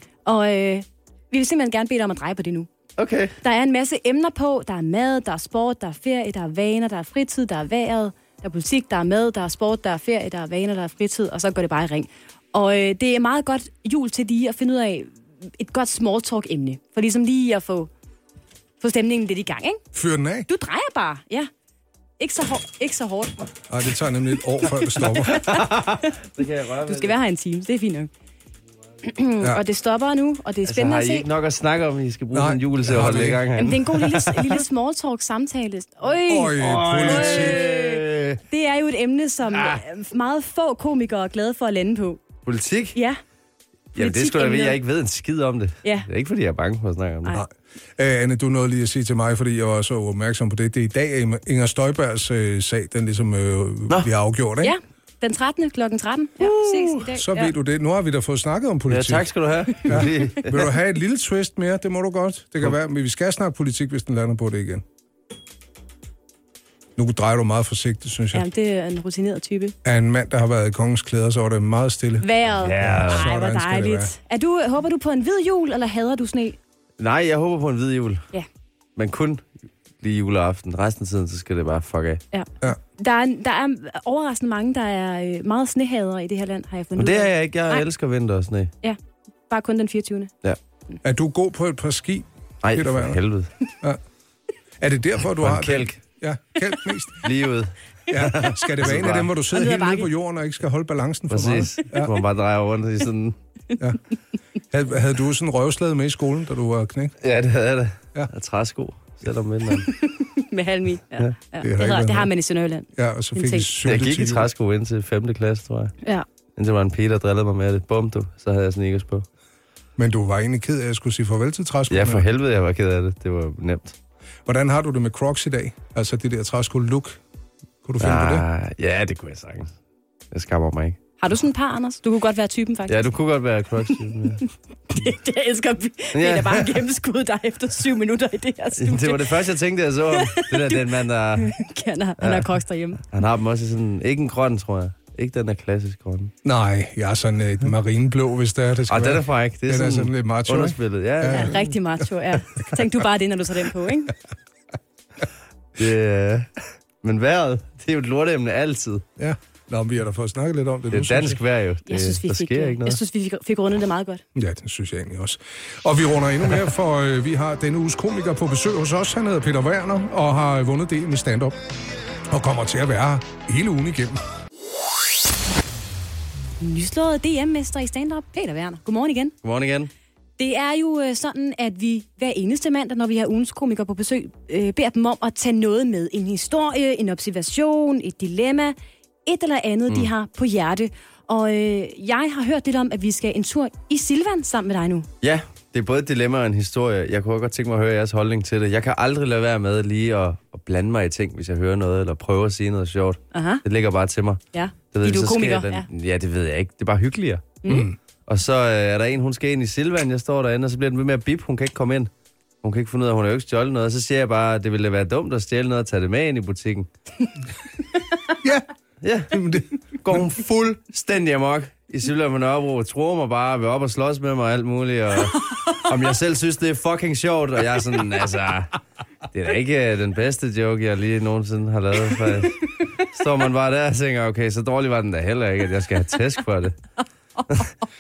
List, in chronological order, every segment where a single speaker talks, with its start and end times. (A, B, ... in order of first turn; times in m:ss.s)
0:00.2-0:02.7 A
0:03.0-0:03.3 B
0:03.4-0:17.9 A
0:18.8-0:19.8 A
0:19.9-0:20.5 C
0:20.5-0:21.5 A
0:22.2-0:23.3 A
0:23.7-0:25.3 C
0:24.7-0:26.1 A
0:25.4-0:27.2 B
0:26.8-0:28.1 A
0:29.0-0:31.3 A
0:30.6-0:34.5 B
0:32.3-0:33.5 C
0:33.6-0:42.2 A
0:36.2-0:37.7 C
0:36.5-0:38.4 B
0:39.5-0:39.8 B
0:42.4-0:43.0 B
0:42.9-0:43.2 A
0:43.9-0:47.4 B
0:44.0-0:44.8 A
0:47.3-0:54.7 C
0:54.6-0:57.5 A
0:56.4-0:57.0 B
0:57.1-0:59.3 C
0:58.9-1:00.6 B
0:59.8-1:04.8 C
1:07.0-1:08.5 C
1:08.3-1:09.7 A
1:09.8-1:14.1 C
1:12.2-1:16.6 A
1:12.6-1:13.3 B
1:17.0-1:18.2 B
1:19.0-1:19.4 B
1:20.0-1:22.2 B
1:22.3-1:27.8 A
1:27.0-1:28.7 B
1:28.8-1:30.3 A
1:31.0-1:33.2 C
1:32.6-1:33.5 B
1:34.8-1:37.2 C
1:35.4-1:36.0 B
1:37.2-1:39.3 B
1:38.1-1:42.1 C
1:39.5-1:40.1 A
1:41.3-1:43.4 B
1:44.7-1:47.2 C
1:47.2-1:49.9 B
1:49.8-1:53.7 A
1:51.6-1:52.3 C
1:53.0-1:54.5 C
1:53.8-1:55.9 B
1:56.6-1:59.2 B
2:00.0-2:02.2 C
2:01.9-2:04.0 B
2:04.5-2:07.2 C
2:07.8-2:08.4 C
2:08.0-2:09.7 B
2:10.3-2:11.0 B
2:11.2-2:13.1 A
2:12.9-2:14.4 B
2:14.9-2:19.3 A
2:16.1-2:16.8 B
2:18.8-2:21.6 B
2:20.1-2:20.8 A
2:21.4-2:23.0 A
2:22.2-2:22.5 B
2:23.1-2:26.3 B
2:26.4-2:31.6 C
2:28.9-2:31.6 B
2:31.3-2:34.1 A
2:35.8-2:39.0 B
2:39.2-2:41.4 C
2:40.9-2:43.0 B
2:41.9-2:44.2 A
2:44.3-2:51.6 C
2:52.3-2:54.2 C
2:56.6-2:59.3 A
2:59.4-2:59.9 B
3:00.4-3:15.1 A
3:15.2-3:24.4 B
3:23.3-3:23.6 A
3:24.5-3:25.8 A
3:24.9-3:27.6 B
3:27.6-3:27.9 A
3:27.7-3:28.0 C
3:28.3-3:32.1 B
3:32.6-3:36.9 B
3:39.0-3:39.4 B
3:39.3-3:40.4 C
3:40.0-3:48.8 B
3:49.3-3:56.8 B